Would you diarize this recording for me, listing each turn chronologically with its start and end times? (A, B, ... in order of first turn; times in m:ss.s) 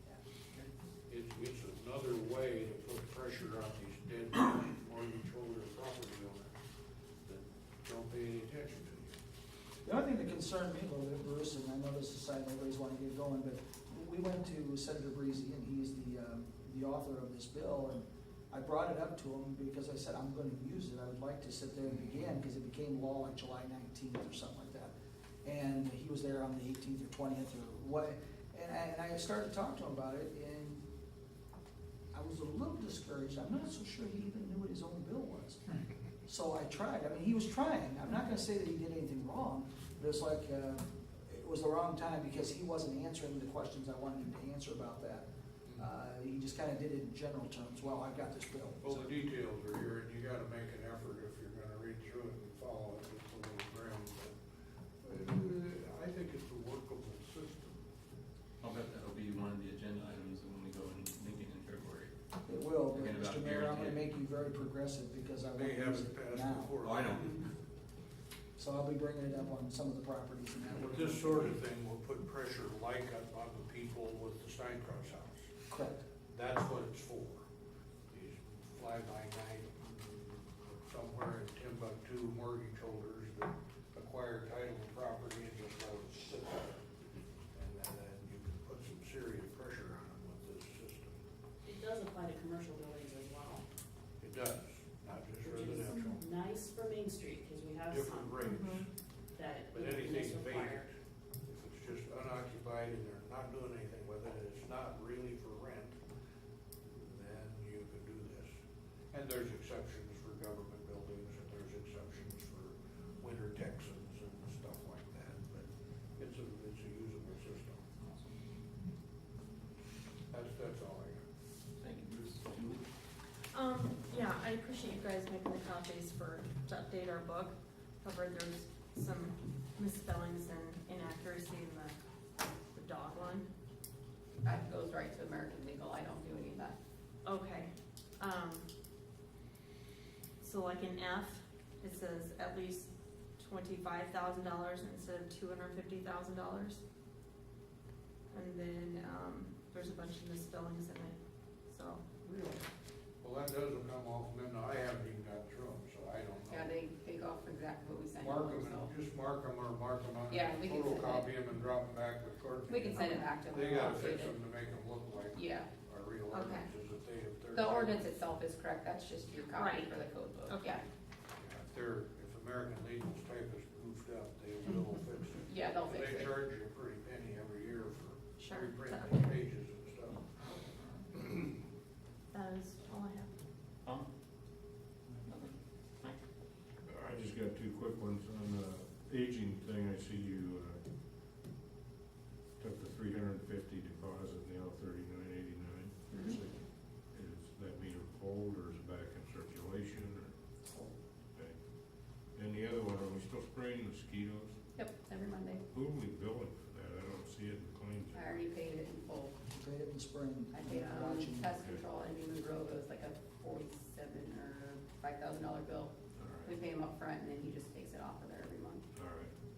0:01.1-0:06.6 A
0:07.3-0:09.2 A
0:09.8-0:24.9 B
0:25.4-0:30.8 B
0:32.1-0:35.6 B
0:36.3-0:45.3 B
0:45.8-0:49.1 B
0:48.8-0:54.4 A
0:55.0-0:57.8 A
0:58.6-1:02.1 C
1:02.5-1:06.8 B
1:02.9-1:04.0 C
1:05.4-1:07.4 A
1:06.8-1:07.4 C
1:08.6-1:11.6 B
1:10.8-1:15.5 A
1:15.7-1:16.0 B
1:16.3-1:17.4 A
1:18.1-1:26.9 A
1:27.5-1:31.2 A
1:31.6-1:33.6 D
1:34.2-1:36.3 A
1:35.4-1:38.4 D
1:37.8-1:38.9 A
1:38.4-1:38.9 E
1:39.3-1:40.9 D
1:39.7-1:40.9 A
1:41.5-1:46.0 A
1:46.9-1:48.6 A
1:49.1-1:57.9 A
2:00.3-2:01.2 A
2:01.8-2:02.8 C
2:03.5-2:12.0 E
2:12.7-2:13.5 E
2:14.4-2:16.8 F
2:17.2-2:18.6 E
2:20.4-2:26.8 E
2:28.3-2:31.2 E
2:31.7-2:32.0 E
2:32.2-2:32.6 A
2:33.2-2:36.7 A
2:36.5-2:38.9 F
2:38.2-2:48.2 A
2:40.3-2:41.3 F
2:42.7-2:44.4 F
2:45.3-2:45.7 F
2:46.3-2:46.7 E
2:47.5-2:50.8 F
2:49.5-2:49.9 E
2:50.5-2:50.8 E
2:51.4-3:00.2 A
2:55.5-2:56.4 F
2:58.4-2:59.3 E
3:02.3-3:03.3 E
3:03.8-3:04.1 C
3:06.9-3:10.8 G
3:12.6-3:20.3 G
3:16.1-3:16.4 F
3:22.4-3:24.6 G
3:24.8-3:25.6 F
3:25.7-3:28.5 G
3:28.1-3:29.3 F
3:29.5-3:31.6 B
3:30.5-3:38.8 F
3:31.5-3:31.8 G
3:36.2-3:36.6 G
3:38.9-3:39.3 G